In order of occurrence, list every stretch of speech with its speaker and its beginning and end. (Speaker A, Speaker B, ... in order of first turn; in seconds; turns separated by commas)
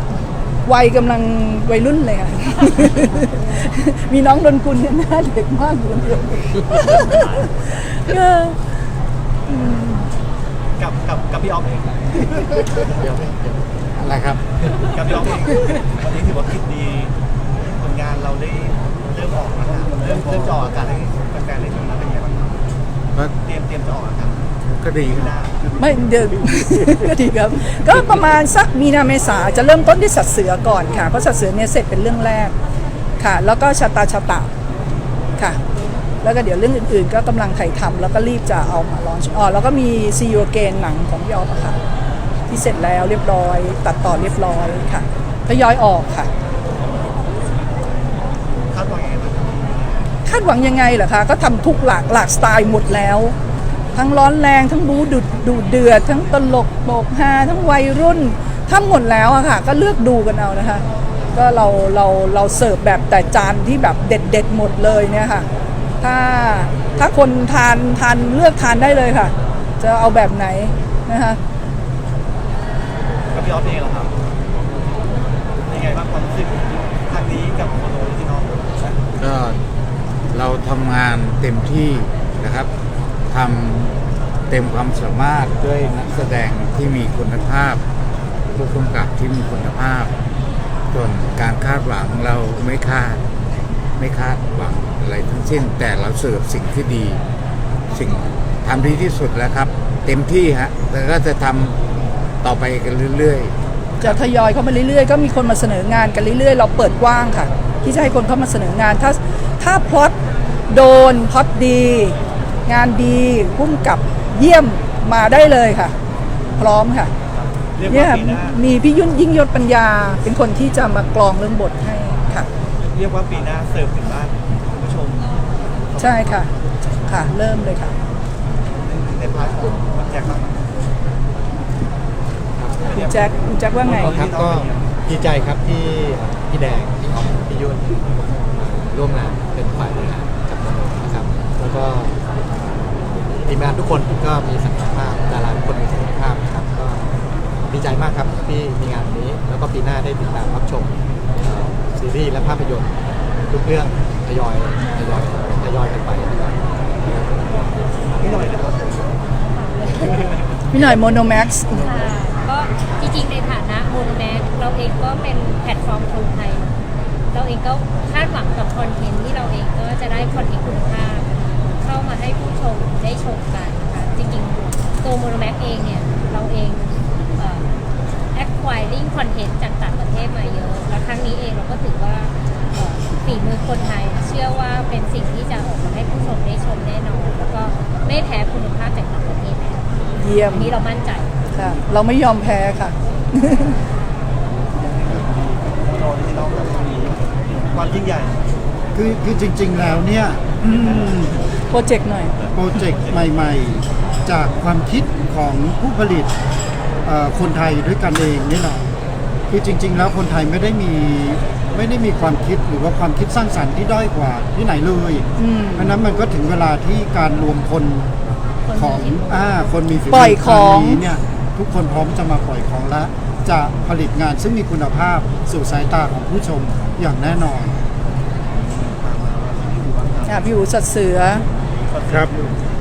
Speaker A: 0.7-8.6, Speaker A: 9.5-10.1, Speaker B: 10.8-12.4, Speaker C: 14.0-14.4, Speaker B: 14.9-22.5, Speaker B: 23.4-24.4, Speaker C: 24.7-25.3, Speaker B: 25.1-25.6, Speaker A: 25.8-32.5, Speaker A: 33.2-34.5, Speaker A: 36.2-41.8, Speaker A: 42.5-46.3, Speaker B: 48.7-50.0, Speaker A: 50.3-53.4, Speaker A: 54.0-60.8, Speaker A: 61.3-65.5, Speaker A: 66.0-71.4, Speaker B: 73.3-74.1, Speaker B: 75.7-79.0, Speaker C: 79.2-79.6, Speaker C: 80.3-82.7, Speaker C: 83.3-83.9, Speaker C: 84.5-87.8, Speaker C: 88.6-90.1, Speaker C: 90.9-93.2, Speaker C: 94.0-97.2, Speaker C: 97.9-101.8, Speaker C: 102.4-104.2, Speaker A: 104.0-110.2, Speaker A: 110.7-115.9, Speaker A: 116.6-117.1, Speaker B: 117.8-118.6, Speaker A: 117.9-122.5, Speaker B: 122.8-126.5, Speaker A: 126.0-126.5, Speaker A: 127.0-128.0, Speaker B: 128.8-130.6, Speaker D: 132.6-132.9, Speaker B: 132.9-134.9, Speaker A: 132.9-134.2, Speaker D: 134.0-142.2, Speaker D: 143.5-147.1, Speaker D: 147.7-152.9, Speaker D: 153.5-157.7, Speaker B: 158.2-159.1, Speaker E: 159.5-160.5, Speaker A: 160.7-161.9, Speaker E: 161.7-166.7, Speaker E: 167.3-177.7, Speaker E: 178.3-189.8, Speaker A: 190.2-190.8, Speaker E: 190.5-191.4, Speaker A: 191.5-193.8, Speaker B: 194.7-198.4, Speaker F: 198.9-201.3, Speaker A: 200.6-202.3, Speaker F: 202.5-206.3, Speaker F: 207.1-208.8, Speaker F: 209.5-218.1, Speaker A: 215.4-216.0, Speaker E: 218.7-219.6, Speaker F: 218.7-227.8, Speaker A: 220.1-221.0, Speaker B: 228.5-230.5, Speaker A: 230.3-231.4, Speaker B: 231.8-232.7